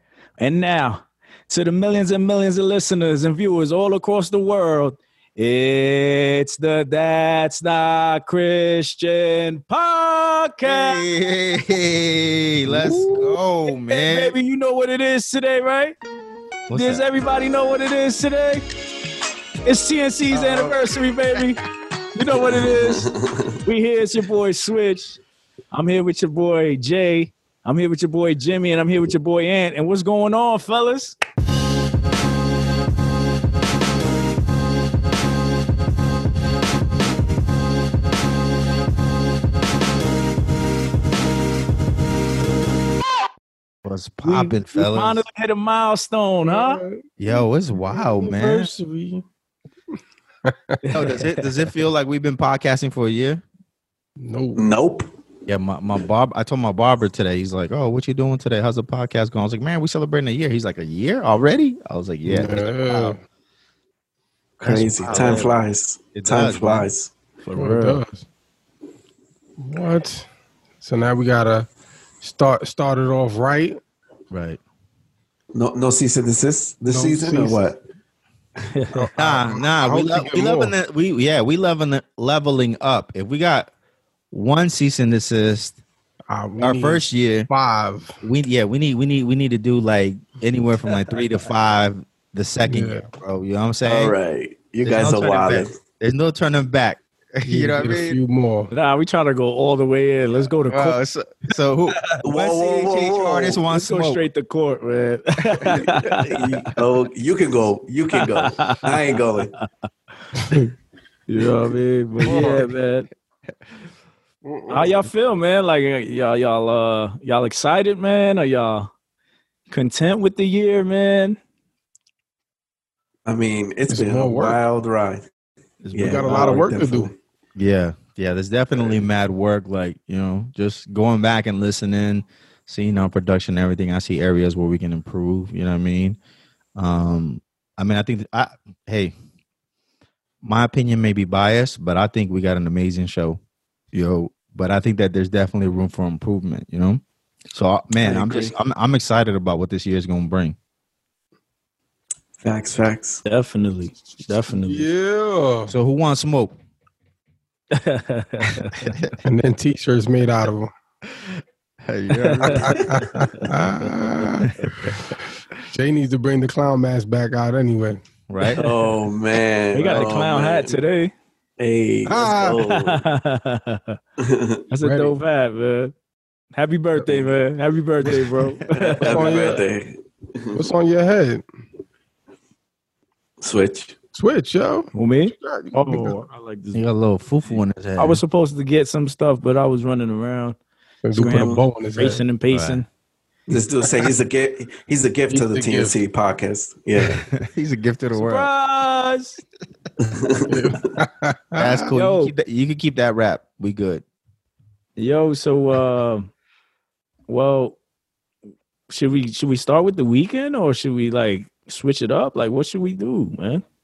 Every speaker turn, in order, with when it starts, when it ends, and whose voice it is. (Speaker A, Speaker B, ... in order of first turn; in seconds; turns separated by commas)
Speaker A: 0.4-11.0, Speaker B: 10.6-14.3, Speaker A: 12.7-15.9, Speaker B: 16.7-17.0, Speaker A: 16.7-18.6, Speaker A: 19.6-21.6, Speaker B: 20.4-20.7, Speaker A: 22.1-23.1, Speaker C: 22.6-23.6, Speaker A: 23.6-25.2, Speaker A: 25.7-31.1, Speaker B: 43.8-45.2, Speaker A: 44.2-46.8, Speaker D: 46.4-49.2, Speaker B: 47.2-48.7, Speaker D: 50.5-50.8, Speaker A: 50.8-51.6, Speaker B: 50.9-53.4, Speaker D: 54.2-54.6, Speaker C: 54.5-55.1, Speaker B: 55.5-63.1, Speaker D: 62.2-63.2, Speaker C: 64.6-67.1, Speaker B: 64.6-65.6, Speaker A: 65.1-65.5, Speaker B: 66.1-66.9, Speaker A: 67.4-68.0, Speaker D: 67.5-68.2, Speaker D: 69.6-70.3, Speaker D: 70.8-71.7, Speaker D: 72.2-73.8, Speaker B: 74.3-74.6, Speaker C: 75.5-77.8, Speaker D: 76.9-77.6, Speaker A: 78.6-79.1, Speaker D: 78.9-80.7, Speaker B: 79.2-83.7, Speaker B: 84.3-85.8, Speaker D: 86.3-88.2, Speaker B: 86.6-87.5, Speaker B: 88.2-94.2, Speaker D: 92.7-93.1, Speaker C: 93.8-95.7, Speaker B: 94.8-98.2, Speaker D: 97.5-98.7, Speaker A: 98.7-101.0, Speaker B: 100.7-104.2, Speaker C: 102.2-103.6, Speaker A: 103.7-106.7, Speaker C: 106.2-109.5, Speaker A: 108.1-108.9, Speaker D: 110.4-110.7, Speaker A: 111.3-113.1, Speaker B: 112.2-112.7, Speaker D: 114.4-115.0, Speaker A: 114.7-118.9, Speaker A: 119.7-121.4, Speaker C: 123.2-125.2, Speaker D: 123.9-124.6, Speaker A: 125.8-126.6, Speaker C: 125.9-127.1, Speaker D: 126.0-127.1, Speaker B: 127.5-136.2, Speaker B: 136.8-139.1, Speaker B: 140.4-143.4, Speaker B: 143.9-150.6, Speaker C: 148.0-148.5, Speaker C: 152.4-153.2, Speaker A: 153.2-154.8, Speaker D: 154.7-155.7, Speaker B: 155.7-156.5, Speaker A: 157.7-158.9, Speaker B: 158.8-159.1, Speaker D: 159.2-160.7, Speaker B: 161.1-162.9, Speaker A: 162.2-162.6, Speaker C: 162.4-162.9, Speaker D: 162.6-164.9, Speaker B: 163.8-164.4, Speaker D: 165.7-168.0, Speaker B: 168.3-168.6, Speaker C: 168.6-170.8, Speaker A: 168.6-168.9, Speaker A: 169.7-171.1, Speaker C: 171.6-173.0, Speaker D: 172.1-172.6, Speaker A: 172.8-174.0, Speaker C: 174.2-174.6, Speaker A: 174.7-175.9, Speaker D: 174.8-175.1, Speaker A: 176.5-179.3, Speaker C: 178.7-180.6, Speaker D: 179.0-179.6, Speaker D: 180.5-181.4, Speaker C: 183.4-183.9, Speaker D: 184.1-186.2, Speaker A: 184.9-186.8, Speaker B: 186.7-188.2, Speaker A: 188.0-190.6, Speaker D: 191.0-192.2, Speaker A: 191.1-192.9, Speaker C: 191.2-191.6, Speaker B: 192.5-192.8, Speaker C: 193.5-197.2, Speaker D: 195.3-195.9, Speaker B: 196.9-198.5, Speaker A: 198.1-199.4, Speaker C: 200.0-200.6, Speaker D: 200.5-201.9, Speaker B: 201.6-204.0, Speaker A: 201.9-202.3, Speaker A: 204.9-206.3, Speaker A: 207.3-207.8, Speaker A: 208.9-213.6